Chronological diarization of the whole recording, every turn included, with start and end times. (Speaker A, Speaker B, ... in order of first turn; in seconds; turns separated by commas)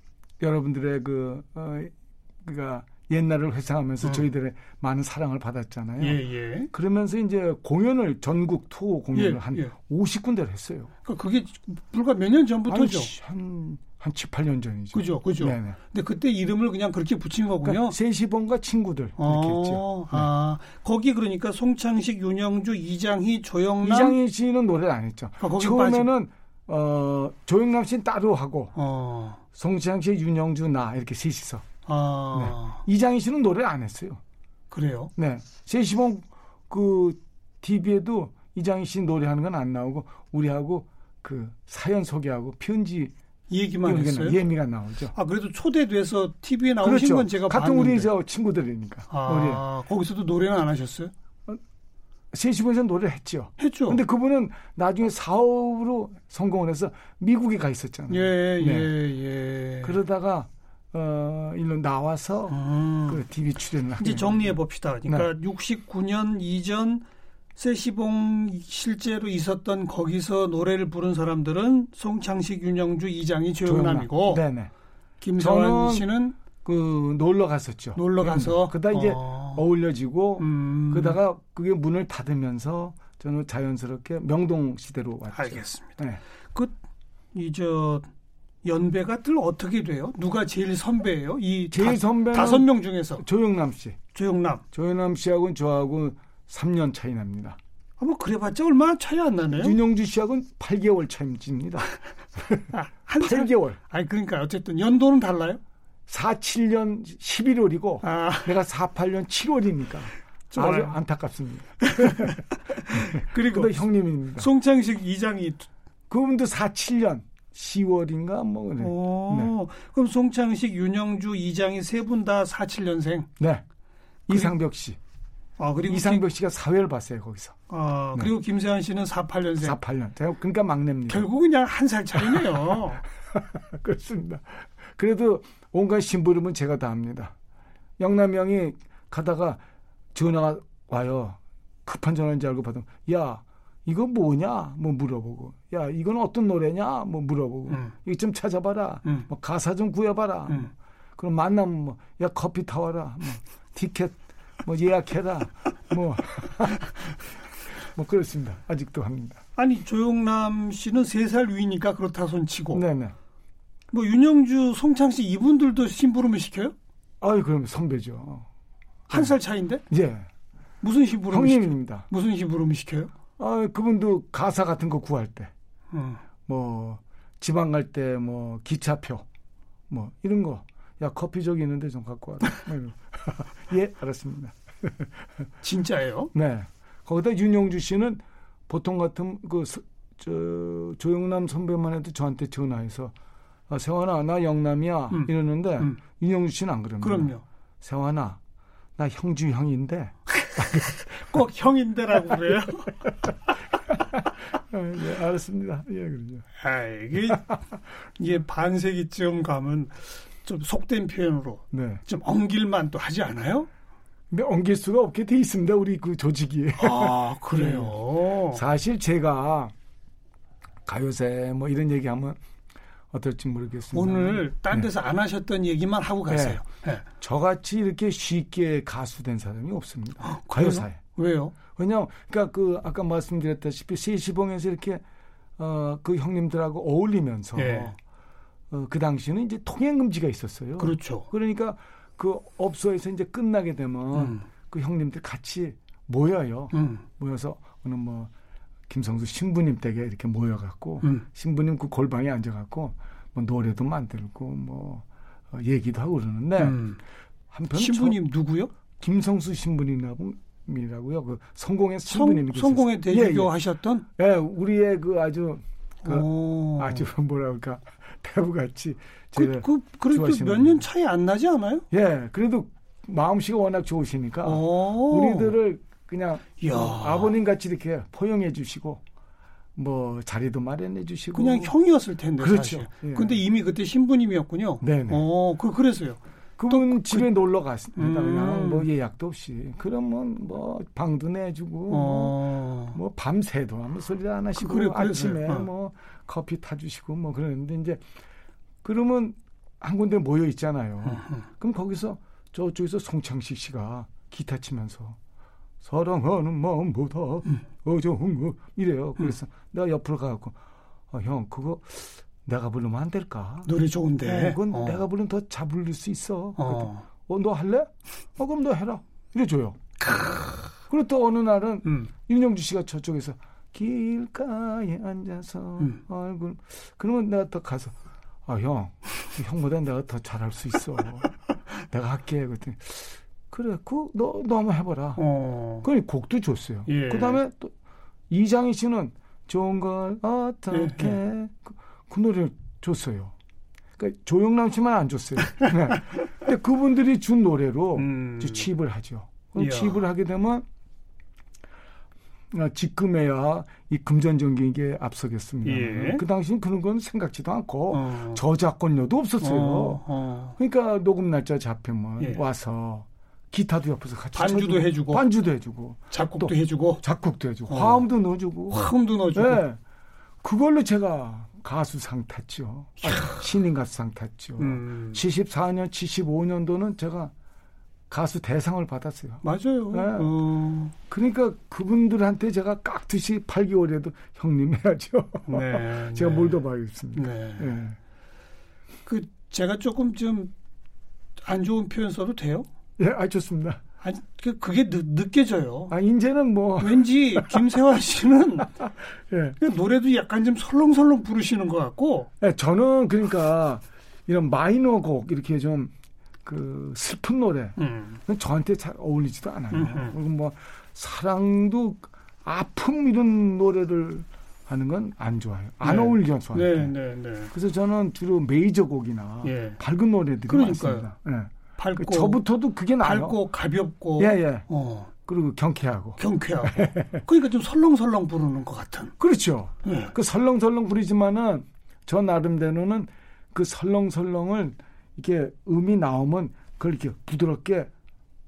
Speaker A: 0.4-6.2, Speaker B: 6.0-6.7, Speaker A: 6.7-10.9, Speaker B: 9.1-9.7, Speaker B: 11.1-13.1, Speaker A: 12.7-15.8, Speaker B: 14.9-18.0, Speaker A: 17.6-20.3, Speaker B: 19.2-24.2, Speaker A: 23.8-28.7, Speaker B: 25.4-26.1, Speaker B: 28.8-29.4, Speaker A: 29.6-31.7, Speaker B: 31.9-32.8, Speaker A: 32.3-34.2, Speaker B: 34.7-35.1, Speaker A: 35.2-43.1, Speaker B: 43.5-44.4, Speaker A: 43.9-45.1, Speaker B: 45.1-48.1, Speaker A: 46.8-49.6, Speaker B: 49.1-51.1, Speaker A: 52.3-58.9, Speaker B: 53.6-54.0, Speaker B: 58.1-60.0, Speaker A: 59.8-64.5, Speaker B: 62.5-63.2, Speaker B: 64.0-67.0, Speaker B: 67.6-74.4, Speaker A: 73.7-74.7, Speaker B: 75.2-76.4, Speaker A: 75.4-76.1, Speaker A: 76.7-86.2, Speaker B: 78.0-79.6, Speaker B: 80.4-81.2, Speaker B: 85.3-86.0, Speaker B: 87.3-88.1, Speaker B: 88.7-93.2, Speaker A: 91.7-94.0, Speaker B: 94.1-94.6, Speaker A: 94.7-97.6, Speaker B: 98.0-99.8, Speaker A: 99.5-103.8, Speaker B: 102.7-105.6, Speaker A: 106.1-112.4, Speaker B: 108.0-108.6, Speaker B: 110.5-111.0, Speaker B: 111.8-115.7, Speaker A: 112.9-114.5, Speaker A: 116.1-119.5, Speaker B: 118.8-123.3, Speaker A: 123.4-123.6, Speaker A: 124.3-125.0, Speaker B: 125.6-126.3, Speaker A: 125.9-127.6, Speaker B: 127.7-129.8, Speaker A: 129.6-131.3, Speaker B: 131.1-133.0, Speaker A: 133.3-137.3, Speaker A: 138.0-139.6, Speaker A: 140.2-156.9, Speaker A: 157.9-159.4, Speaker B: 159.6-162.8, Speaker A: 162.7-163.2, Speaker B: 163.9-166.7, Speaker A: 167.2-168.5, Speaker A: 169.1-169.3, Speaker B: 169.1-169.8, Speaker A: 169.9-170.3, Speaker B: 170.8-173.1, Speaker A: 171.3-172.1, Speaker A: 173.4-175.5, Speaker B: 175.9-176.2, Speaker A: 176.5-179.2, Speaker A: 179.9-185.1, Speaker B: 185.6-186.3, Speaker A: 186.3-193.1, Speaker A: 193.7-198.4, Speaker B: 195.1-196.0, Speaker B: 197.0-197.4, Speaker A: 199.0-201.0, Speaker B: 200.5-203.0, Speaker A: 203.9-206.5, Speaker B: 206.6-207.6, Speaker B: 208.2-213.7, Speaker A: 211.7-212.0, Speaker A: 214.3-217.9, Speaker B: 216.8-218.6, Speaker A: 218.5-219.7, Speaker A: 220.9-222.4, Speaker A: 223.1-224.9, Speaker B: 223.9-227.0, Speaker A: 226.3-226.6, Speaker A: 227.2-231.0, Speaker B: 230.2-231.6, Speaker A: 231.7-235.0, Speaker A: 235.6-238.0, Speaker B: 237.6-237.9, Speaker A: 238.7-248.3, Speaker B: 240.8-241.3, Speaker B: 244.1-244.4, Speaker B: 246.7-247.0, Speaker A: 248.9-256.8, Speaker B: 256.6-257.0, Speaker A: 257.5-258.2, Speaker B: 257.7-258.7, Speaker A: 259.0-263.5, Speaker B: 262.1-264.1, Speaker A: 264.2-270.9, Speaker B: 266.0-267.1, Speaker B: 269.4-271.9, Speaker A: 271.9-279.0, Speaker B: 274.4-275.6, Speaker B: 276.6-277.3, Speaker A: 279.8-281.7, Speaker B: 281.3-287.3, Speaker A: 282.4-283.4, Speaker A: 284.8-285.3, Speaker A: 286.6-292.4, Speaker B: 288.0-288.9, Speaker B: 291.9-293.0, Speaker A: 292.9-298.0, Speaker B: 294.6-295.7, Speaker A: 298.8-305.2, Speaker B: 301.1-301.4, Speaker A: 305.8-310.6, Speaker A: 311.1-313.7, Speaker B: 313.7-315.0, Speaker A: 314.2-319.8, Speaker B: 316.6-317.0, Speaker B: 320.0-320.7, Speaker A: 320.9-327.9, Speaker A: 328.5-331.3, Speaker A: 331.9-335.2, Speaker B: 335.2-335.9, Speaker A: 335.8-337.7, Speaker B: 336.9-337.4, Speaker A: 338.3-343.3, Speaker B: 340.7-341.2, Speaker A: 344.0-350.6, Speaker B: 348.0-348.7, Speaker B: 349.6-350.0, Speaker A: 352.5-360.0, Speaker B: 355.6-356.2, Speaker B: 357.9-358.4, Speaker B: 359.4-360.6, Speaker A: 360.6-369.8, Speaker B: 364.4-365.3, Speaker B: 366.1-367.0, Speaker B: 367.7-368.1, Speaker B: 368.7-369.6, Speaker A: 370.4-377.3, Speaker B: 373.0-373.4, Speaker B: 374.6-375.2, Speaker A: 378.1-380.3, Speaker B: 379.4-380.9, Speaker A: 381.1-388.0, Speaker B: 385.5-386.6, Speaker B: 387.1-387.8, Speaker B: 389.1-390.5, Speaker B: 391.4-392.7, Speaker A: 393.0-393.8, Speaker B: 394.0-395.9, Speaker A: 395.9-397.6, Speaker B: 396.8-398.7, Speaker A: 399.3-399.6, Speaker B: 399.6-402.3, Speaker A: 402.4-405.9, Speaker A: 406.4-416.9, Speaker B: 407.8-408.2, Speaker B: 409.7-410.1, Speaker B: 415.8-417.5, Speaker A: 417.5-423.4, Speaker B: 419.4-419.8, Speaker B: 420.5-421.1, Speaker B: 421.8-422.4, Speaker B: 423.0-425.1, Speaker A: 424.2-424.7, Speaker A: 425.2-427.2, Speaker B: 426.2-429.1, Speaker A: 429.2-437.9, Speaker B: 429.8-430.1